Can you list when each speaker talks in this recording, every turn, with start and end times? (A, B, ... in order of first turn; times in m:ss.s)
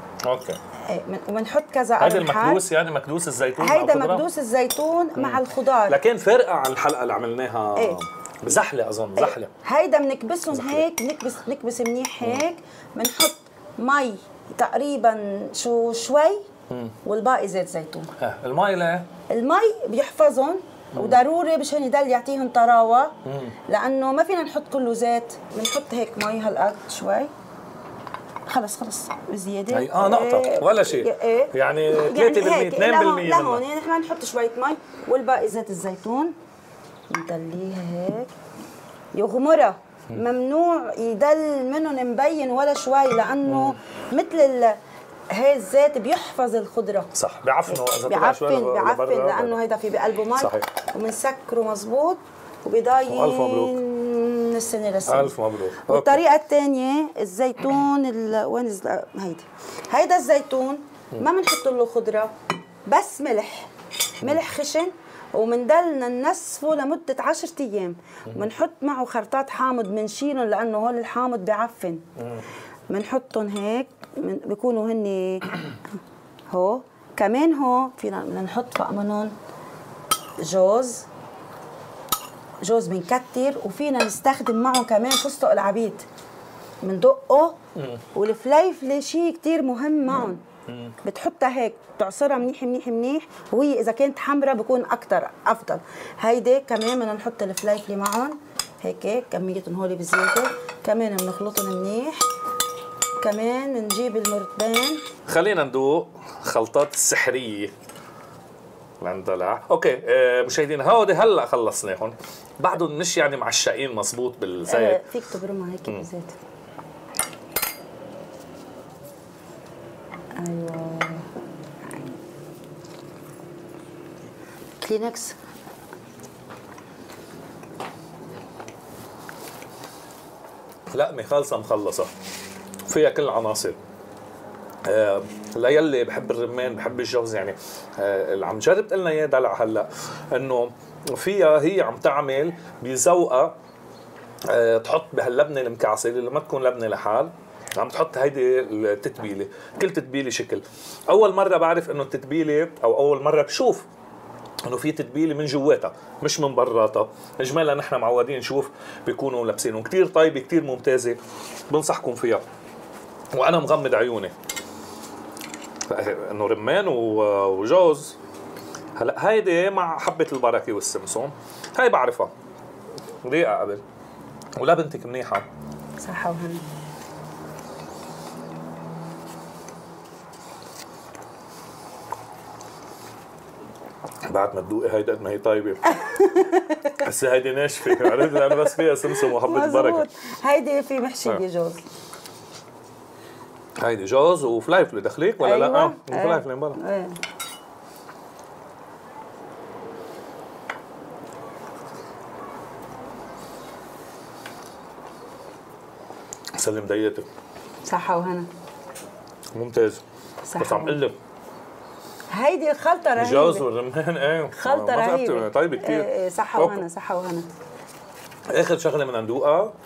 0:00.2-0:00.6 A
0:00.8-0:02.6 B
0:02.0-0:04.2 A
0:03.6-0:06.0 B
0:05.2-0:09.5 A
0:09.2-0:16.4 B
0:10.5-0:10.8 A
0:17.0-0:18.1 B
0:18.2-0:19.1 A
0:19.3-0:23.1 B
0:23.2-0:23.6 A
0:23.7-0:27.3 B
0:28.5-0:36.3 B
0:29.7-0:33.6 A
0:37.1-0:38.3 B
0:39.1-0:44.8 B
0:43.4-0:43.8 A
0:45.3-0:47.1 B
0:47.1-0:49.6 A
0:47.7-1:02.3 B
0:50.4-0:50.7 A
0:53.0-0:53.8 A
0:55.1-0:56.2 A
1:02.9-1:03.7 B
1:04.2-1:12.0 B
1:12.9-1:15.6 B
1:16.5-1:19.3 B
1:20.4-1:21.1 B
1:22.6-1:26.0 B
1:26.8-1:27.6 B
1:27.8-1:28.0 A
1:28.1-1:30.4 B
1:30.7-1:30.9 A
1:31.0-1:42.2 B
1:43.2-1:45.0 B
1:45.2-1:47.7 A
1:49.0-1:55.0 A
1:54.7-1:56.4 B
2:00.4-2:01.3 B
2:01.8-2:02.2 B
2:04.8-2:05.4 B
2:10.9-2:12.1 A
2:12.9-2:13.8 A
2:14.8-2:23.6 A
2:24.4-2:33.9 A
2:34.6-2:41.2 A
2:41.7-2:42.4 A
2:43.3-2:44.3 A
2:45.9-2:48.2 A
2:49.0-2:52.3 A
2:53.2-2:53.8 A
2:54.6-2:55.4 A
2:56.0-2:56.6 B
3:04.3-3:06.0 A
3:05.9-3:06.9 B
3:06.8-3:10.0 A
3:07.9-3:11.8 B
3:13.8-3:16.8 A
3:15.4-3:17.2 B
3:26.6-3:27.2 A
3:27.8-3:28.5 B
3:29.6-3:30.0 A
3:30.4-3:31.0 B
3:30.6-3:31.1 A
3:32.3-3:33.6 B
3:33.2-3:36.8 A
3:34.5-3:37.5 B
3:38.5-3:39.7 A